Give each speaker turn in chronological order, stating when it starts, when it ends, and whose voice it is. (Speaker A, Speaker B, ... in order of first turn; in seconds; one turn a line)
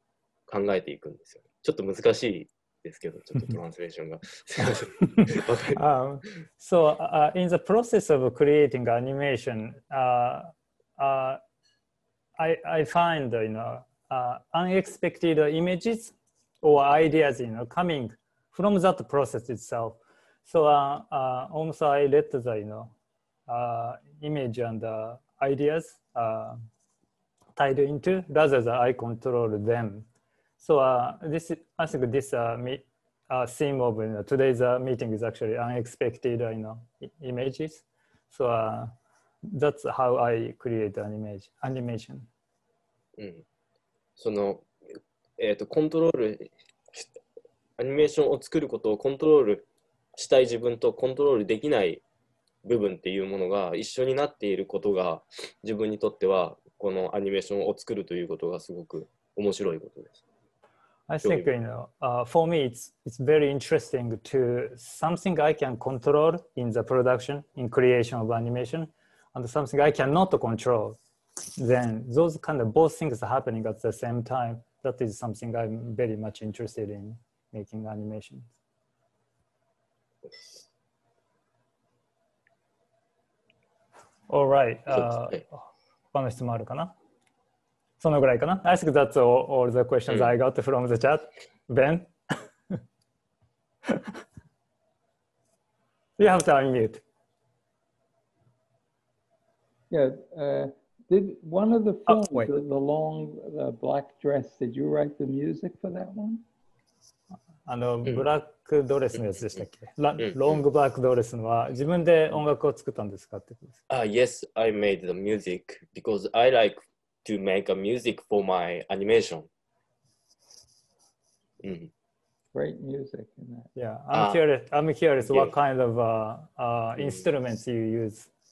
Speaker A: 0.5-5.8
Speaker B: 5.8-11.4
Speaker B: 12.4-22.9
Speaker B: 23.5-26.6
Speaker B: 27.6-30.1
Speaker B: 30.6-42.3
Speaker A: 43.2-43.4
Speaker A: 44.2-44.7
Speaker A: 45.4-47.1
Speaker A: 47.8-52.0
Speaker A: 52.6-60.2
Speaker B: 61.1-71.0
Speaker A: 61.2-61.5
Speaker B: 71.6-78.5
Speaker B: 84.3-85.6
Speaker A: 85.0-85.4
Speaker B: 86.1-86.9
Speaker B: 88.0-92.1
Speaker B: 96.2-97.0
Speaker C: 99.9-106.4
Speaker B: 102.1-102.5
Speaker B: 107.7-113.8
Speaker A: 110.2-110.6
Speaker A: 113.9-119.5
Speaker A: 121.6-121.9
Speaker C: 122.5-123.7
Speaker B: 123.8-128.3
Speaker A: 124.1-124.4
Speaker A: 125.2-125.5